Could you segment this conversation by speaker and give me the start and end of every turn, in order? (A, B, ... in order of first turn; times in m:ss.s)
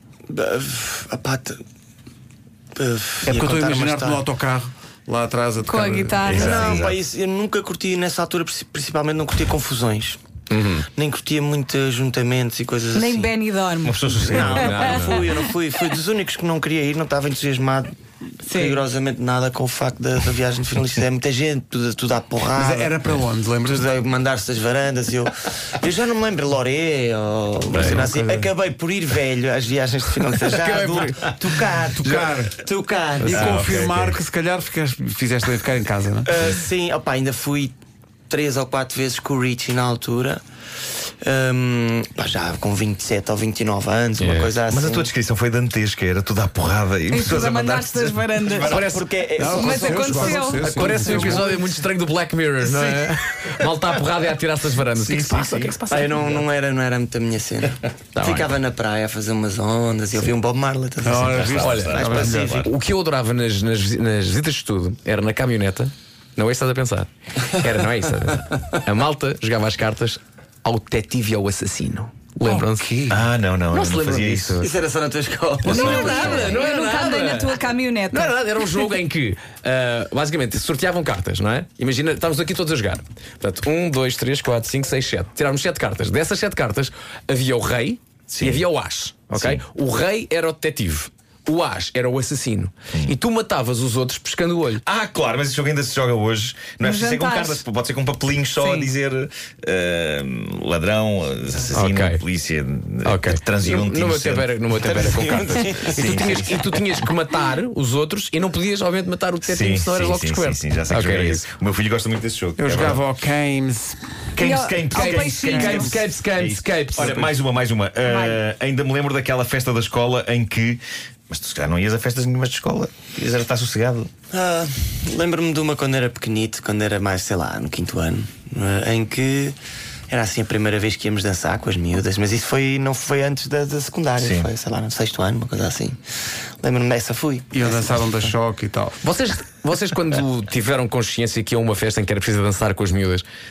0:00.3-0:01.6 A
0:02.8-0:04.2 A
0:03.2-0:06.3 B
0:05.7-0:06.6 C
0:06.2-0:07.0 D
0:06.4-0:10.2 A
0:10.5-0:10.9 E
0:11.0-0:13.4 A
0:12.9-0:15.2 C
0:13.8-0:14.8 D
0:14.2-0:17.9 A
0:14.5-0:15.3 E
0:18.5-0:22.9 A
0:18.5-0:18.8 C
0:22.6-0:23.9 B
0:23.6-0:33.8 A
0:27.7-0:28.1 E
0:27.7-0:28.5 B
0:30.4-0:31.3 E
0:32.0-0:32.6 B
0:33.2-0:36.4 B
0:33.2-0:33.5 E
0:33.3-0:34.2 D
0:36.2-0:37.8 A
0:38.3-0:40.4 A
0:41.0-0:45.1 A
0:44.2-0:44.5 E
0:44.7-0:48.9 D
0:47.1-0:48.8 C
0:48.7-0:50.9 A
0:48.7-0:49.7 E
0:49.4-0:51.5 B
0:49.5-0:51.4 C
0:50.6-0:56.4 E
0:55.0-0:55.8 D
0:55.9-1:02.6 A
0:58.2-0:58.5 E
1:01.0-1:02.6 B
1:01.1-1:02.7 D
1:01.6-1:13.0 E
1:12.4-1:13.2 B
1:13.1-1:14.6 D
1:13.7-1:14.7 E
1:14.6-1:16.7 A
1:15.6-1:34.8 E
1:15.6-1:18.4 C
1:29.3-1:29.6 D
1:34.8-1:46.6 D
1:36.8-1:37.6 C
1:38.6-1:38.9 C
1:41.8-1:42.2 E
1:43.0-1:51.5 E
1:44.7-1:46.6 A
1:49.4-1:53.0 D
1:52.6-1:54.0 B
1:54.4-2:04.1 D
1:54.4-1:55.9 C
1:55.1-1:55.9 B
1:55.4-1:57.3 E
1:58.0-1:58.4 C
2:04.3-2:09.6 A
2:10.1-2:16.0 A
2:14.2-2:14.5 D
2:16.6-2:18.0 A
2:17.5-2:19.0 B
2:19.0-2:23.2 E